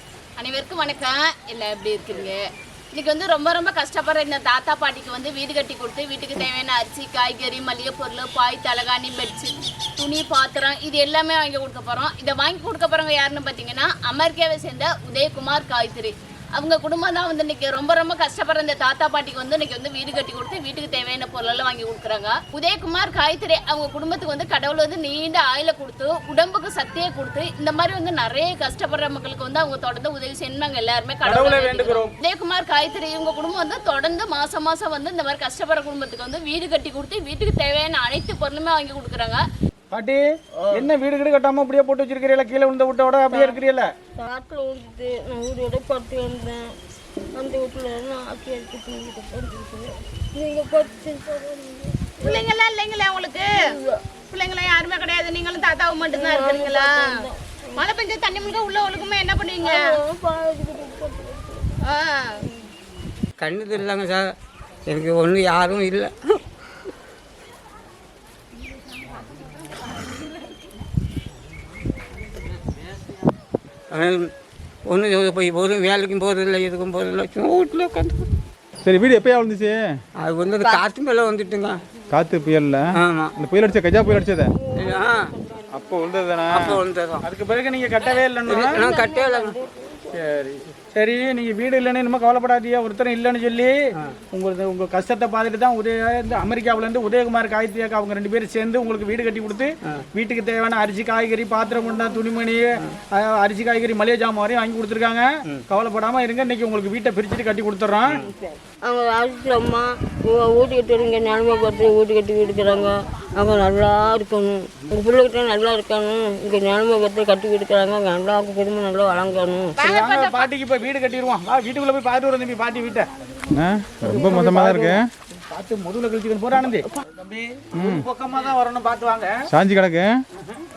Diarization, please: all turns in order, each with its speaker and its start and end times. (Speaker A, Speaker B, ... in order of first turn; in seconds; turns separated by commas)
Speaker A: 0.4-2.4, Speaker A: 2.9-39.4, Speaker B: 31.2-32.1, Speaker B: 39.9-43.9, Speaker C: 44.2-46.6, Speaker C: 47.4-52.5, Speaker A: 52.4-53.4, Speaker C: 53.7-54.0, Speaker A: 54.3-56.8, Speaker C: 56.0-57.9, Speaker A: 58.6-59.4, Speaker C: 59.6-61.7, Speaker D: 63.4-64.3, Speaker D: 64.9-66.2, Speaker D: 73.9-74.3, Speaker D: 74.9-78.3, Speaker E: 78.8-79.8, Speaker D: 80.2-81.8, Speaker E: 82.1-84.6, Speaker D: 82.9-83.3, Speaker D: 84.8-85.3, Speaker C: 84.8-85.1, Speaker E: 85.7-86.8, Speaker D: 86.5-87.2, Speaker B: 87.2-88.9, Speaker D: 88.4-89.6, Speaker C: 88.8-89.9, Speaker B: 90.1-93.8, Speaker B: 94.3-108.2, Speaker C: 108.8-119.8, Speaker A: 119.8-120.4, Speaker B: 119.8-123.1, Speaker E: 123.5-125.0, Speaker B: 124.0-129.4, Speaker E: 127.8-128.1, Speaker E: 129.5-130.2